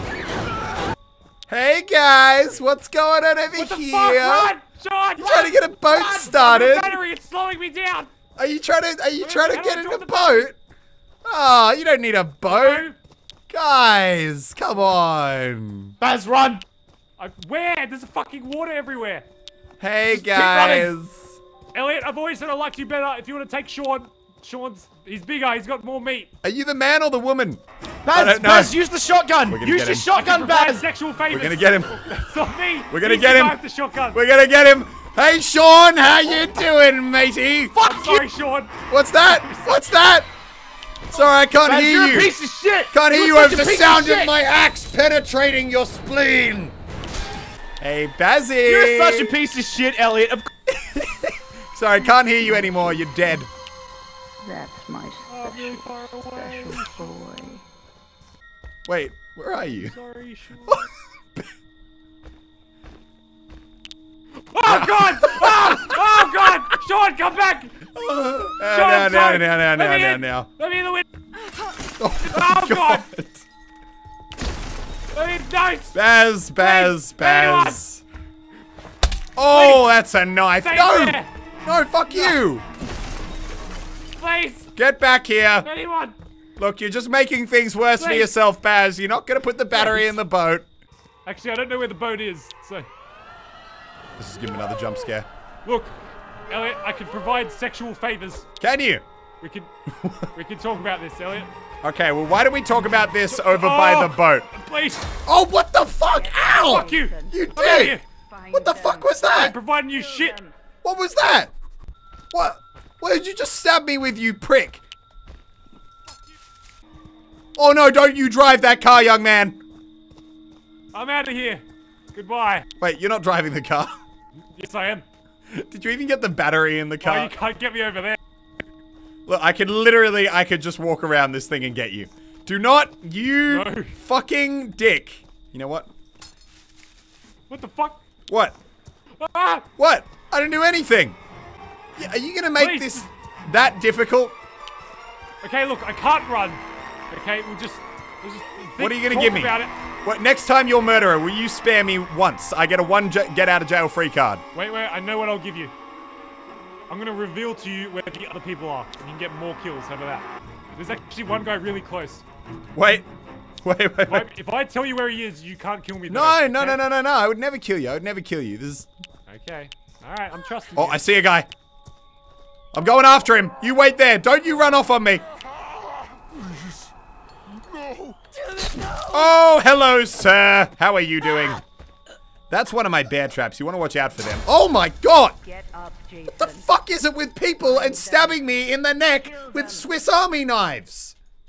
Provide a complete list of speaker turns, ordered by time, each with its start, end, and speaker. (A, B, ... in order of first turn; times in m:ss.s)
0:01.5-0:04.5 A
0:03.5-0:08.1 B
0:05.2-0:07.0 A
0:08.4-0:10.6 A
0:09.2-0:10.5 B
0:11.2-0:12.9 A
0:12.5-0:13.0 B
0:13.5-0:16.0 A
0:16.0-0:16.6 C
0:17.2-0:19.3 B
0:19.8-0:21.4 A
0:20.1-0:20.9 C
0:21.7-0:26.3 B
0:26.4-0:28.8 A
0:28.1-0:30.9 C
0:29.5-0:30.1 A
0:30.1-0:34.2 B
0:31.3-0:32.1 A
0:32.9-0:33.6 A
0:34.1-0:37.8 A
0:37.8-0:39.8 B
0:37.8-0:38.2 C
0:38.9-0:40.3 A
0:41.1-0:42.4 A
0:41.6-0:44.3 C
0:42.9-0:46.8 A
0:47.8-0:49.4 A
0:48.6-0:50.5 C
0:50.7-0:53.5 A
0:54.4-0:57.6 D
0:55.3-0:57.1 B
0:58.9-1:00.0 A
0:59.8-1:00.9 B
1:04.5-1:07.9 B
1:04.7-1:06.0 A
1:07.9-1:10.5 A
1:08.6-1:11.0 B
1:12.0-1:13.4 A
1:12.2-1:13.1 B
1:15.1-1:16.0 B
1:15.9-1:18.0 A
1:16.6-1:17.8 B
1:19.4-1:22.6 A
1:19.5-1:19.9 B
1:20.6-1:21.3 B
1:24.2-1:24.7 B
1:24.8-1:25.7 A
1:25.6-1:26.2 B
1:26.6-1:30.7 A
1:28.0-1:28.3 B
1:29.7-1:30.2 B
1:31.2-1:32.9 B
1:34.2-1:35.3 A
1:35.6-1:36.0 B
1:36.5-1:38.5 B
1:38.6-1:39.0 A
1:39.4-1:39.7 B
1:40.0-1:40.3 A
1:40.3-1:41.5 B
1:41.8-1:44.5 A
1:43.3-1:45.1 B
1:45.3-1:48.0 A
1:46.1-1:47.5 D
1:46.6-1:48.0 B
1:48.3-1:49.5 D
1:48.5-1:49.6 A
1:49.3-1:50.4 B
1:50.2-1:50.5 D
1:50.8-1:51.5 A
1:52.3-1:54.8 A
1:57.6-1:59.6 A
2:00.9-2:02.7 B
2:02.8-2:03.9 A
2:04.6-2:05.0 B
2:05.5-2:07.3 A
2:07.0-2:08.2 B
2:09.3-2:15.9 A
2:13.5-2:14.0 B
2:17.5-2:18.0 B
2:18.3-2:18.6 A
2:19.2-2:19.7 B
2:19.8-2:21.2 A
2:22.0-2:24.4 A
2:22.6-2:23.1 B
2:25.4-2:29.7 B
2:28.8-2:34.4 A
2:34.5-2:35.7 B
2:36.9-2:42.2 B
2:42.8-2:43.1 A
2:43.6-2:44.3 A
2:44.1-2:46.8 B
2:46.1-2:48.9 A
2:49.3-2:51.0 B
2:50.8-2:51.5 A
2:52.7-2:55.2 A
2:59.1-3:01.6 A
3:02.5-3:05.4 A
3:05.4-3:06.7 D
3:06.4-3:11.2 A
3:07.6-3:08.5 D
3:09.2-3:09.9 D